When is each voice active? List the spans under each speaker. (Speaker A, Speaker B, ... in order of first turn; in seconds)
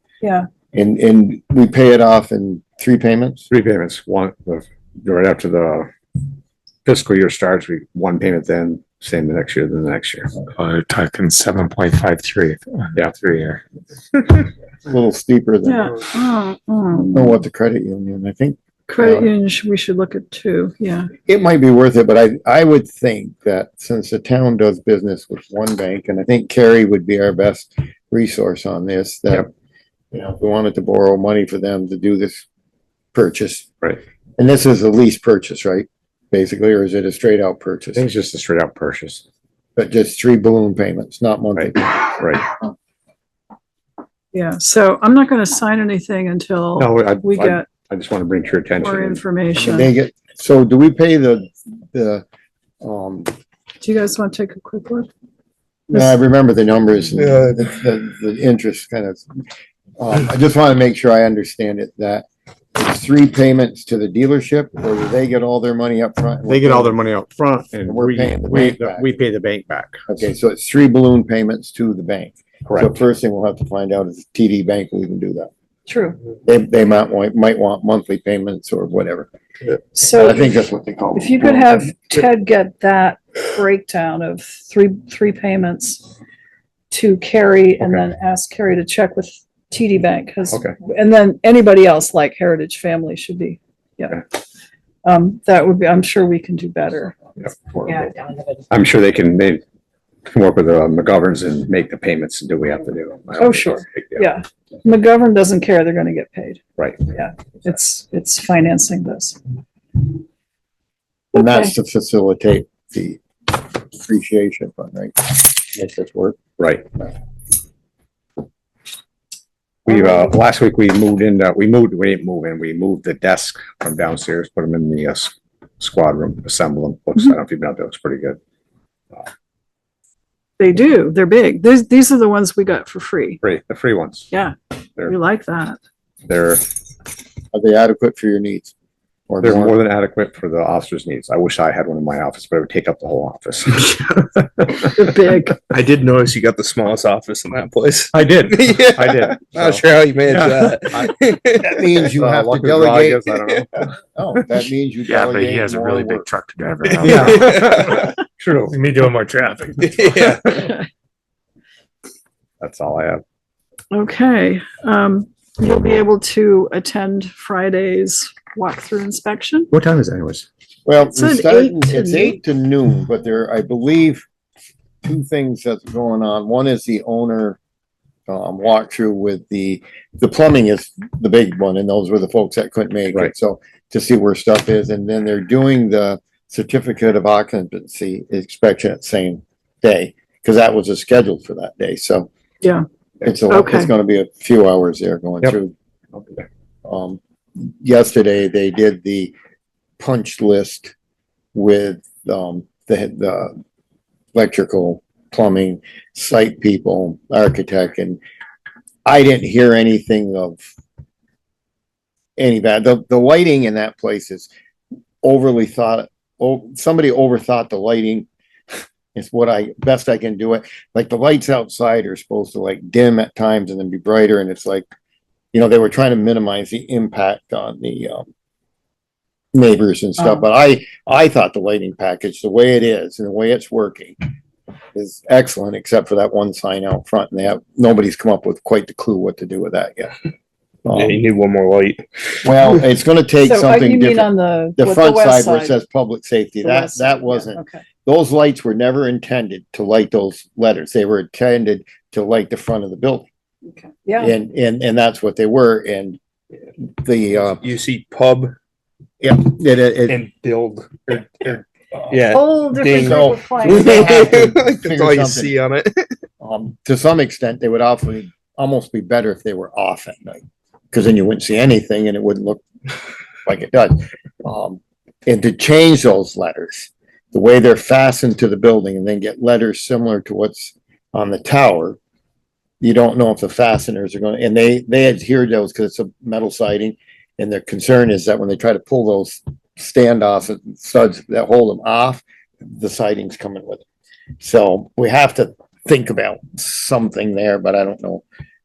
Speaker A: 0.2-0.5, 15.6-17.4, 18.9-21.1, 44.3-47.7, 48.8-49.9, 53.8-55.1, 75.9-76.2, 80.0-80.5, 81.2-86.1, 86.9-94.3, 95.0-97.2, 103.4-109.4, 111.3-111.7, 130.6-133.4, 134.3-135.8, 144.9-145.6, 163.9-169.7, 171.1-172.4, 193.5-193.9, 243.4-245.7, 246.6-247.8, 253.8-254.3, 262.3-264.4
Speaker B: 0.7-3.5, 14.8-16.0, 17.1-19.3, 21.2-29.5, 30.1-32.5, 33.1-33.7, 34.4-38.1, 39.8-42.4, 49.6-52.2, 52.8-53.3, 55.9-59.3, 60.0-67.0, 67.9-69.1, 70.1-75.5, 76.4-79.3, 80.0-81.9, 111.3-116.4, 137.5-138.7, 139.3-139.8, 151.6-153.4, 154.1-156.3, 170.9-174.3, 175.0-177.6, 178.3-192.3, 193.2-195.7, 196.8-199.3, 200.0-200.9, 201.5-203.6, 204.3-208.2, 209.1-210.6, 212.4-214.5, 215.2-218.3, 219.2-224.9, 225.5-228.3, 229.5-234.2, 234.9-240.2, 240.8-241.2, 242.4-253.3, 254.2-256.2, 256.8-257.6, 259.2-260.2, 261.1-262.0, 263.0-265.5, 266.4-272.6, 273.4-282.0, 282.8-293.9, 294.4-298.2
Speaker C: 3.5-5.9, 6.8-10.3, 37.9-39.2, 41.5-42.5, 46.8-49.2, 66.5-70.0, 87.8-88.0, 97.4-98.2, 98.7-99.6, 100.3-104.3, 106.8-107.0, 116.6-116.9, 119.8-128.4, 133.4-134.3, 136.3-136.7, 139.4-144.9, 148.1-151.2, 152.2-153.8, 157.0-158.8, 162.6-163.2, 169.7-170.5, 196.1-196.5
Speaker D: 10.6-13.6, 155.1-160.2
Speaker E: 57.2-57.5, 145.7-151.7, 157.0-158.1, 159.8-160.8, 240.9-242.1, 257.6-258.5, 260.1-261.1, 262.1-266.1